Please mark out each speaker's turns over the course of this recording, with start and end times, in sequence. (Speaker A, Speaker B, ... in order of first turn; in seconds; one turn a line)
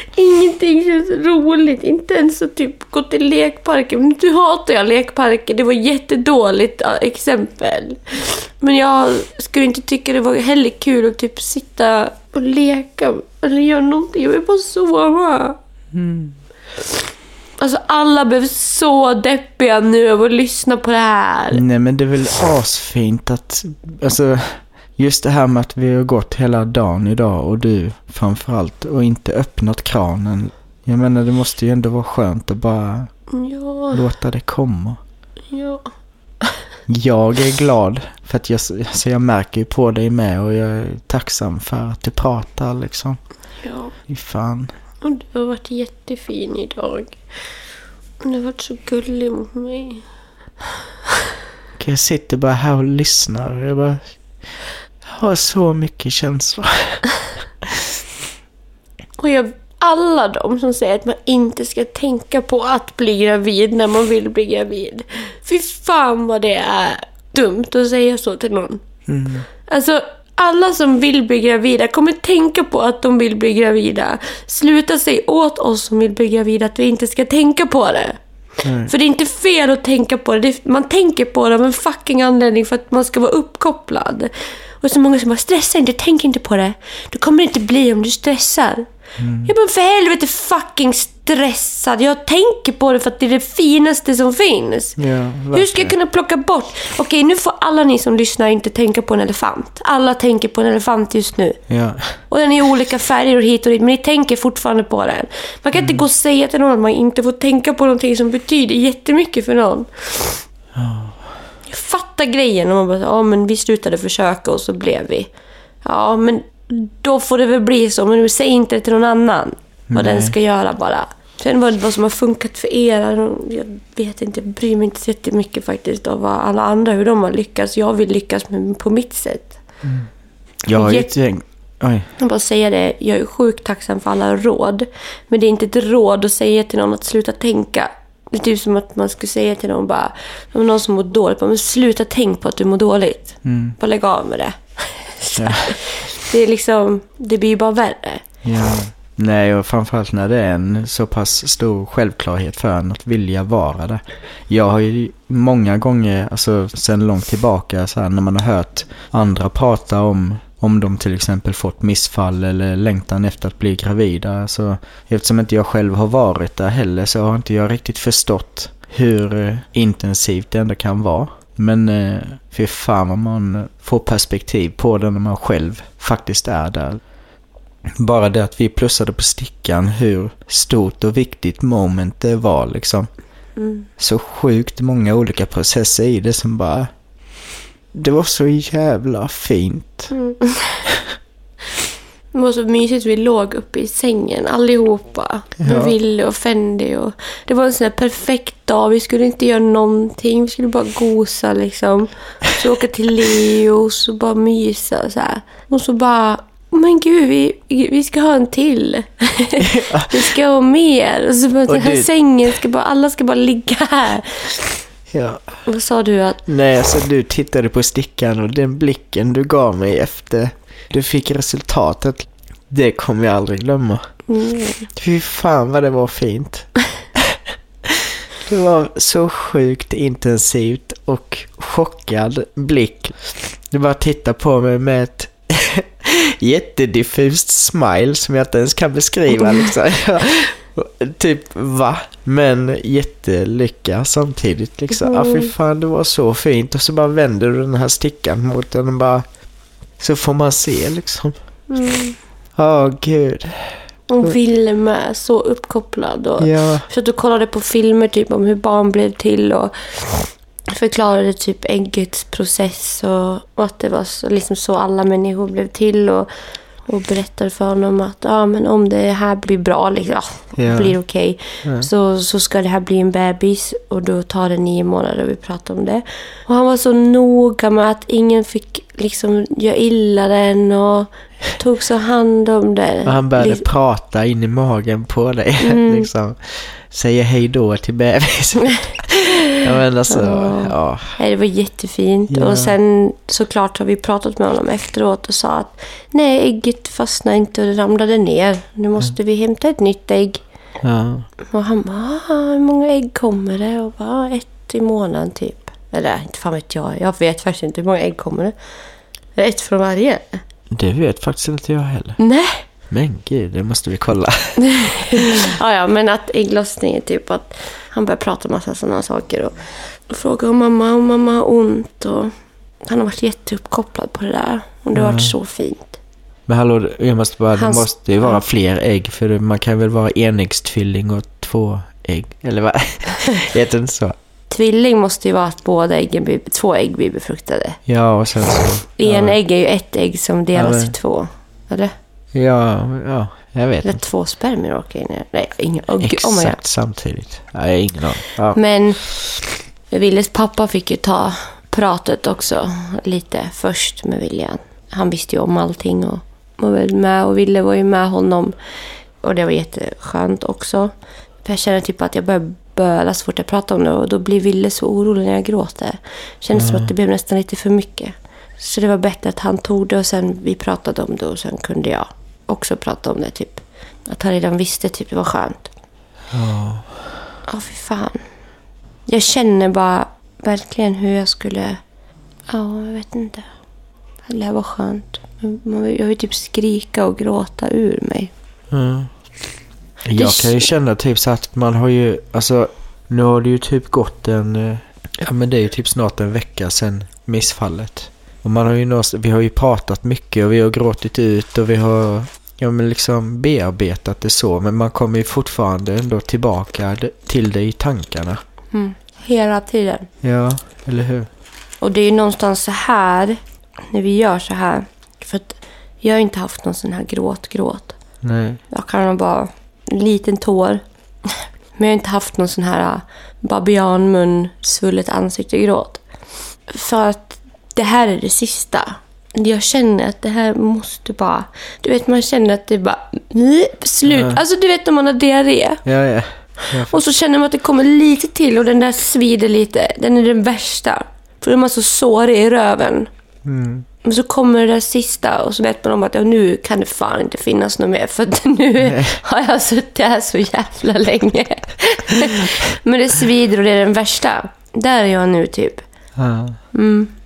Speaker A: 0.1-15.6
Speaker B: 15.9-16.4
Speaker A: 17.6-21.6
Speaker B: 21.5-33.2
Speaker A: 33.3-34.0
Speaker B: 33.9-35.0
Speaker A: 35.5-36.6
Speaker B: 36.9-43.2
Speaker A: 43.6-43.9
Speaker B: 44.1-44.7
Speaker A: 45.0-47.2
Speaker A: 48.2-50.0
Speaker B: 51.8-57.0
Speaker A: 59.2-68.8
Speaker B: 69.1-69.5
Speaker A: 69.7-78.2
Speaker B: 78.6-78.9
Speaker A: 78.8-88.8
Speaker B: 89.2-89.5
Speaker A: 89.4-95.0
Speaker B: 95.0-95.9
Speaker A: 95.5-101.6
Speaker B: 101.7-102.2
Speaker A: 102.2-110.4
Speaker B: 105.7-106.0
Speaker B: 110.7-111.4
Speaker A: 111.7-115.3
Speaker A: 115.8-129.7
Speaker B: 119.9-120.3
Speaker B: 129.8-130.1
Speaker B: 130.6-132.1
Speaker A: 130.7-131.1
Speaker A: 132.2-148.2
Speaker B: 143.4-143.8
Speaker B: 145.3-145.7
Speaker B: 148.4-177.0
Speaker B: 178.0-183.1
Speaker A: 183.6-183.9
Speaker B: 184.0-186.9
Speaker B: 187.9-190.1
Speaker A: 190.1-190.8
Speaker B: 190.9-191.1
Speaker A: 192.3-214.7
Speaker B: 195.6-195.9
Speaker B: 209.6-210.2
Speaker B: 211.7-212.1
Speaker B: 215.1-215.6
Speaker A: 215.7-216.4
Speaker B: 216.4-224.2
Speaker A: 224.3-224.9
Speaker B: 224.9-249.2
Speaker A: 244.9-245.5
Speaker B: 250.0-251.3
Speaker A: 251.7-252.2
Speaker B: 252.5-254.3
Speaker A: 254.1-266.3
Speaker B: 256.4-256.9
Speaker A: 266.8-283.6
Speaker B: 270.6-271.0
Speaker B: 271.6-271.9
Speaker B: 283.0-291.2
Speaker A: 285.6-286.1
Speaker A: 290.1-300.4
Speaker B: 292.3-292.7
Speaker B: 300.8-301.3
Speaker A: 301.5-308.5
Speaker A: 309.3-310.4
Speaker B: 310.7-312.2
Speaker A: 312.2-312.6
Speaker B: 312.9-315.2
Speaker A: 314.6-322.3
Speaker A: 322.8-325.9
Speaker B: 324.9-325.3
Speaker B: 326.5-334.1
Speaker A: 327.6-328.4
Speaker A: 334.5-337.8
Speaker B: 337.9-339.4
Speaker A: 338.5-341.9
Speaker B: 340.5-340.9
Speaker B: 342.3-344.0
Speaker A: 343.8-346.6
Speaker B: 346.0-349.0
Speaker A: 348.5-358.5
Speaker A: 359.2-375.7
Speaker B: 366.5-366.9
Speaker B: 376.3-377.2
Speaker A: 377.5-378.2
Speaker A: 379.1-381.8
Speaker A: 382.5-383.5
Speaker A: 384.2-388.3
Speaker B: 388.7-389.1
Speaker B: 390.0-408.4
Speaker A: 390.1-390.7
Speaker A: 408.7-410.1
Speaker B: 410.2-411.3
Speaker A: 411.8-413.4
Speaker A: 413.9-418.0
Speaker B: 418.2-418.6
Speaker A: 418.7-426.0
Speaker A: 426.7-435.8
Speaker B: 434.1-434.4
Speaker B: 435.8-437.0
Speaker A: 436.6-443.1
Speaker B: 443.4-443.9
Speaker A: 444.0-455.9
Speaker B: 448.8-449.2
Speaker B: 456.1-456.7
Speaker A: 456.7-457.1